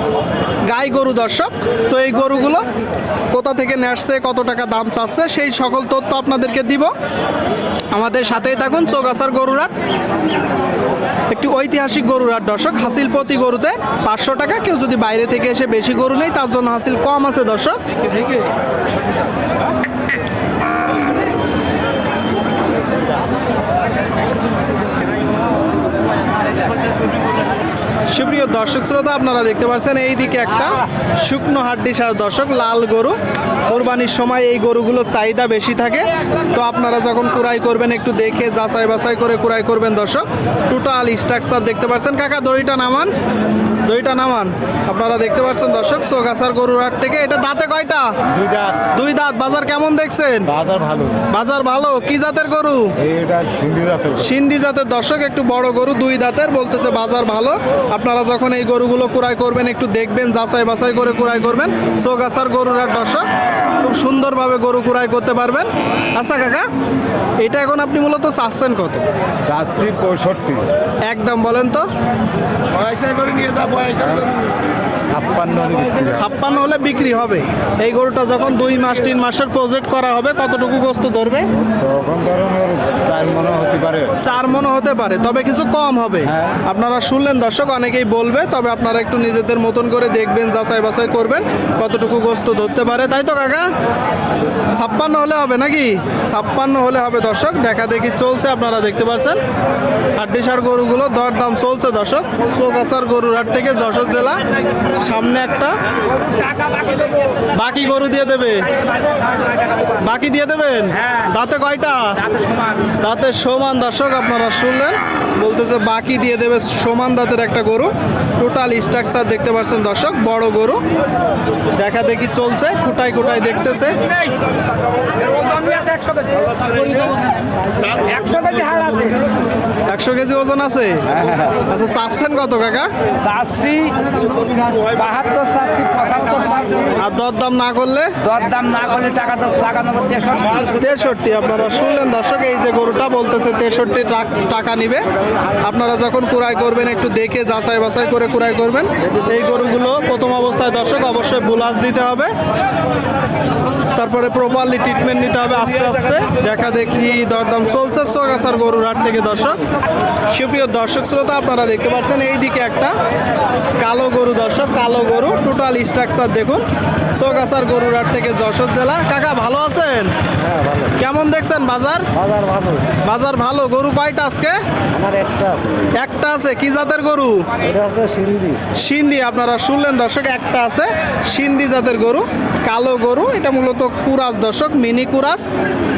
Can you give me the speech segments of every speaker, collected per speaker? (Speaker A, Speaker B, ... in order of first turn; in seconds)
Speaker A: 0.7-2.6, 3.3-6.9, 7.9-9.7, 11.3-17.8, 28.1-43.1, 43.8-48.1, 48.9-50.5, 51.3-52.9, 54.2-63.2, 63.8-66.7, 67.4-69.0, 71.1-71.9, 76.1-81.5, 84.2-93.7, 94.7-99.4, 100.1-105.8, 107.5-108.7, 109.9-112.2, 112.9-120.8, 121.8-124.0, 129.8-132.9, 136.9-138.2, 140.7-145.0, 145.6-152.3, 153.9-159.6, 160.3-162.9, 163.8-166.6, 167.1-170.1, 170.9-172.1, 173.0-174.6, 176.0-177.5, 178.7-185.5
Speaker B: 48.3-48.9, 50.5-51.2, 53.0-54.3, 69.5-70.7, 72.8-76.2, 81.8-84.2, 170.5-170.9, 172.2-172.8, 175.0-175.8, 177.7-178.6
Speaker C: 112.2-112.8, 125.2-127.2, 127.9-129.3, 133.2-136.9, 138.2-140.7